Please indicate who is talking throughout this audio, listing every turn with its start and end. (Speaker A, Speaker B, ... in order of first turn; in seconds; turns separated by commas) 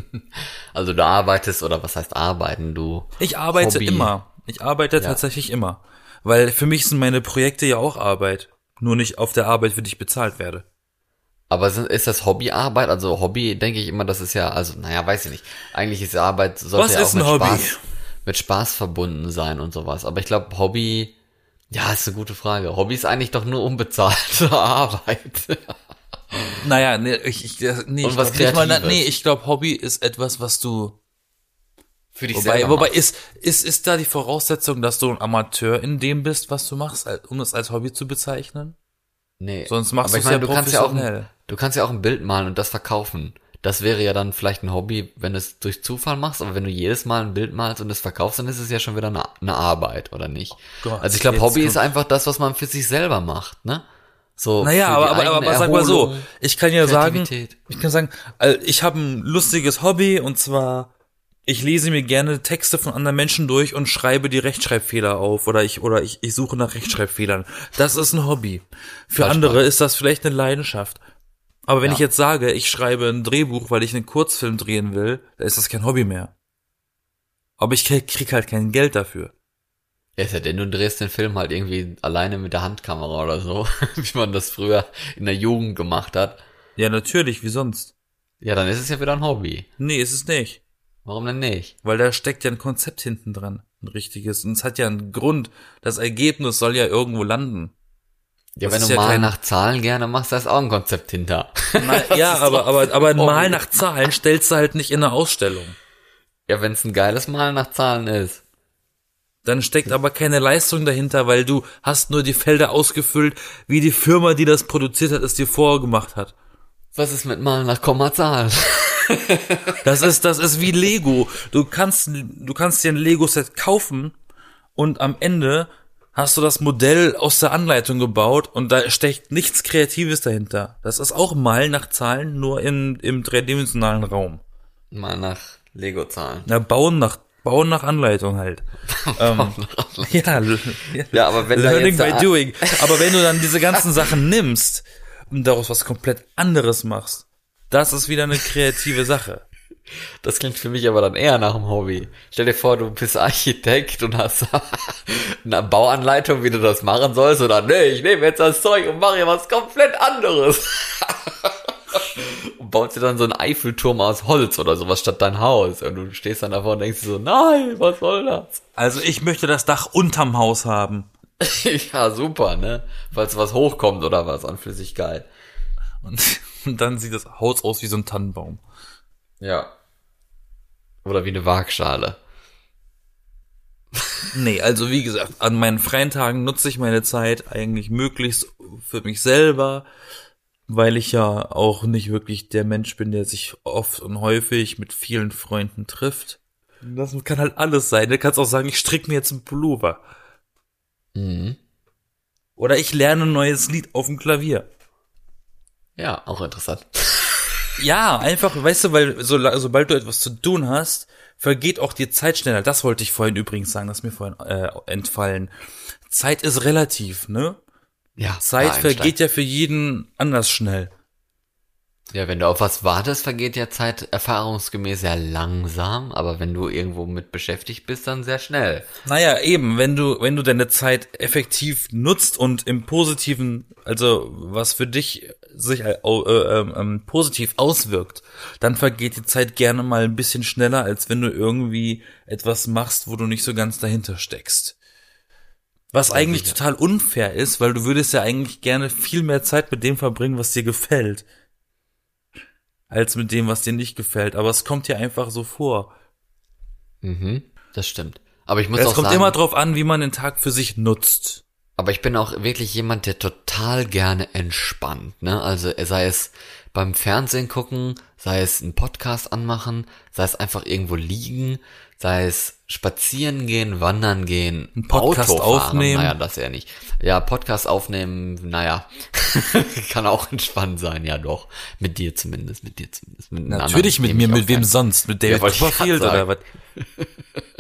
Speaker A: 0.8-4.1, Speaker B: 3.2-10.7, Speaker A: 11.5-21.1, Speaker B: 16.8-17.8, Speaker A: 21.7-25.8, Speaker A: 26.3-26.6, Speaker B: 26.6-31.0, Speaker A: 28.0-29.0, Speaker A: 32.1-33.0, Speaker B: 32.3-38.8, Speaker A: 39.4-53.9, Speaker B: 39.7-41.3, Speaker B: 50.8-51.9, Speaker A: 54.4-56.3, Speaker B: 54.6-60.9, Speaker A: 56.8-57.6, Speaker B: 61.5-71.0, Speaker A: 69.2-69.6, Speaker B: 71.7-76.3, Speaker B: 77.6-79.3, Speaker A: 80.2-86.4, Speaker B: 86.8-87.9, Speaker A: 88.4-89.7, Speaker B: 89.8-90.6, Speaker A: 91.0-91.7, Speaker B: 91.8-97.7, Speaker A: 98.6-103.6, Speaker B: 98.6-99.3, Speaker B: 101.8-105.8, Speaker A: 106.5-108.4, Speaker B: 109.4-116.3, Speaker A: 117.0-119.8, Speaker B: 119.8-124.2, Speaker B: 124.8-134.4, Speaker A: 134.9-136.5, Speaker B: 136.5-138.6, Speaker A: 138.9-140.5, Speaker B: 139.2-149.4, Speaker A: 141.1-143.2, Speaker A: 150.2-168.6, Speaker B: 168.8-171.1, Speaker A: 171.4-175.3, Speaker B: 176.0-178.6, Speaker A: 179.4-179.7, Speaker A: 181.1-182.2, Speaker B: 184.3-189.9, Speaker B: 190.7-200.0, Speaker A: 201.2-201.6, Speaker B: 202.6-204.7, Speaker A: 206.0-207.7, Speaker B: 207.8-215.5, Speaker B: 216.1-217.6, Speaker A: 218.2-219.2, Speaker B: 218.4-220.9, Speaker A: 222.1-228.9, Speaker B: 229.1-244.8, Speaker B: 245.9-251.2, Speaker A: 246.1-246.6, Speaker B: 252.9-255.9, Speaker A: 257.0-259.4, Speaker B: 258.8-261.4, Speaker A: 261.8-284.7, Speaker B: 274.8-276.2, Speaker B: 283.5-286.4, Speaker A: 285.2-286.3, Speaker A: 286.8-287.1